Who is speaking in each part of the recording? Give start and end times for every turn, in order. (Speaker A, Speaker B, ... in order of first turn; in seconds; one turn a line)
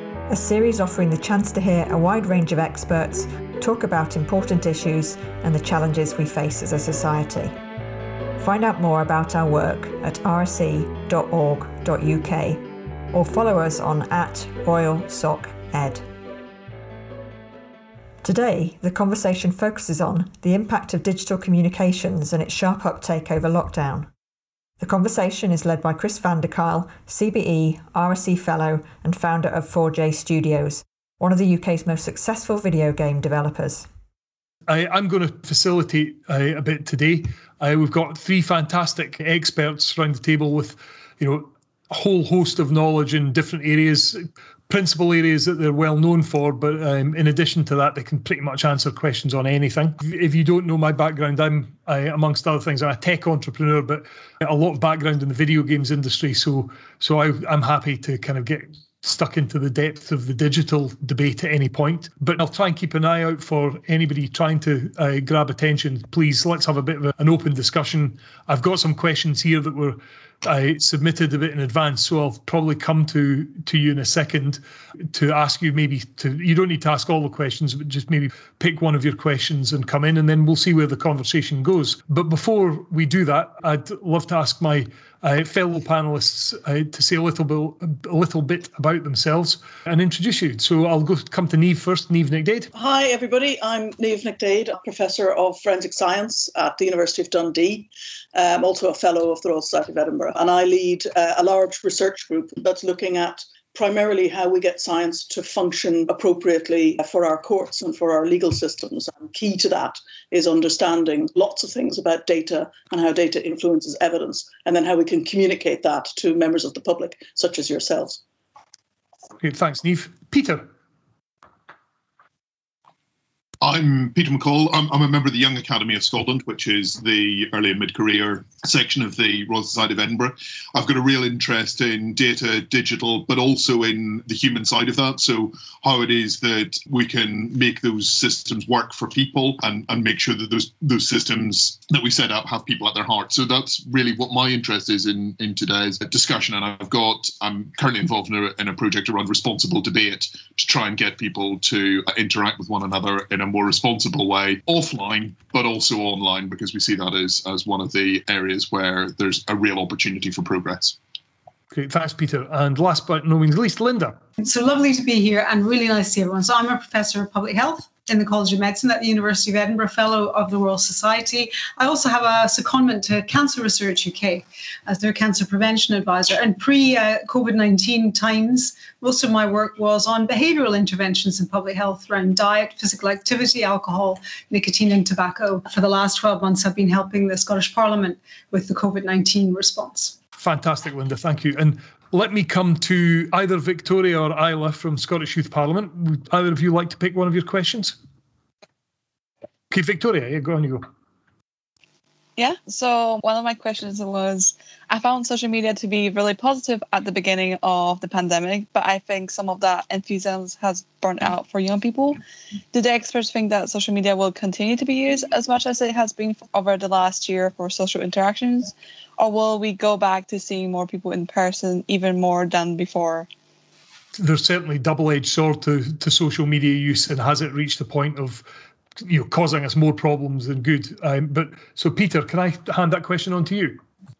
Speaker A: 0.3-7.5
Speaker A: 8.4-16.1
Speaker A: 18.2-24.1
Speaker A: 24.8-33.9
Speaker B: 34.7-92.7
Speaker C: 92.7-118.2
Speaker B: 119.4-120.7
Speaker D: 123.6-161.0
Speaker B: 161.7-164.2
Speaker E: 164.4-190.2
Speaker B: 190.4-197.9
Speaker B: 199.7-200.9
Speaker F: 202.4-212.2
Speaker F: 212.7-223.3
Speaker B: 224.2-228.4
Speaker B: 229.0-233.8